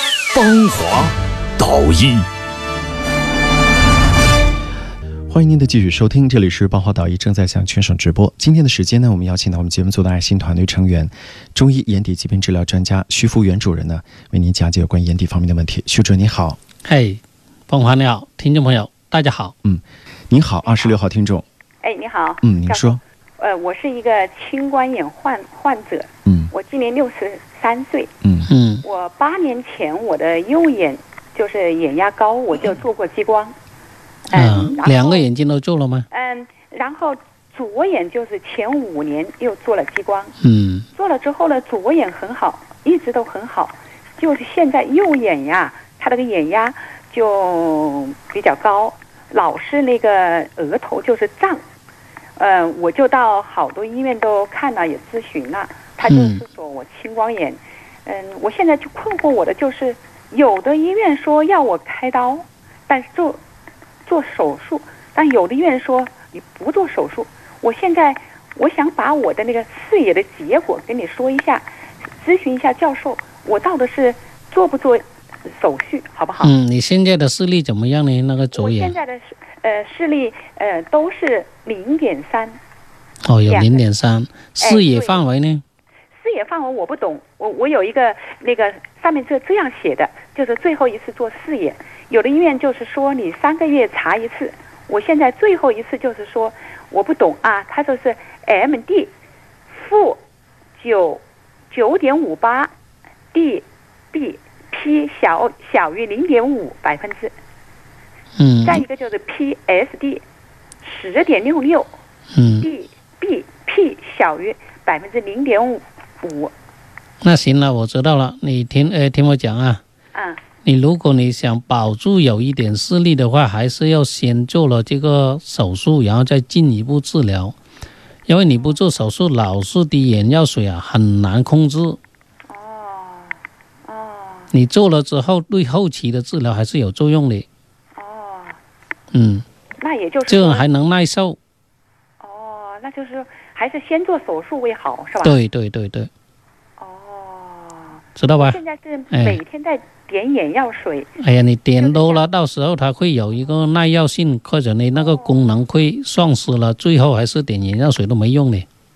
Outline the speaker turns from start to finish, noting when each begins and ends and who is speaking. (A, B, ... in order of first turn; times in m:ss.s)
0:00.3-0:02.3 A
0:05.3-0:16.6 B
0:16.8-0:19.5 C
0:19.6-0:21.4 B
0:20.6-0:21.0 D
0:21.8-0:28.1 D
0:22.4-0:23.0 B
0:26.2-0:26.5 B
0:28.2-0:28.5 B
0:28.5-0:28.8 C
0:28.8-0:33.6 D
0:34.3-0:35.2 D
0:34.3-0:36.0 C
0:36.1-0:40.3 D
0:40.4-0:40.9 C
0:40.9-0:51.6 D
0:52.4-1:03.4 D
0:56.0-0:56.4 C
1:04.1-1:16.5 D
1:16.4-1:19.0 C
1:18.5-1:22.6 D
1:23.2-1:25.6 C
1:23.5-1:23.8 D
1:24.6-1:25.2 D
1:26.1-1:39.1 D
1:39.7-1:40.2 D
1:40.8-1:42.7 D
1:43.3-1:47.3 D
1:48.4-1:48.8 C
1:48.6-1:50.2 D
1:50.8-1:51.9 D
1:52.3-1:52.7 C
1:52.6-1:56.5 D
1:57.2-1:59.8 C
2:00.1-2:00.4 D
2:00.6-2:07.6 C
2:08.3-2:12.0 C
2:08.5-2:08.8 D
2:12.5-2:14.5 D
2:14.5-2:17.5 C
2:17.9-2:18.6 D
2:19.1-2:19.4 C
2:19.8-2:20.7 D
2:20.3-2:21.4 C
2:22.2-2:25.4 D
2:25.2-2:26.1 C
2:26.8-2:31.1 D
2:28.2-2:28.6 C
2:29.1-2:29.4 C
2:31.2-2:38.7 C
2:31.8-2:32.2 D
2:34.9-2:35.5 D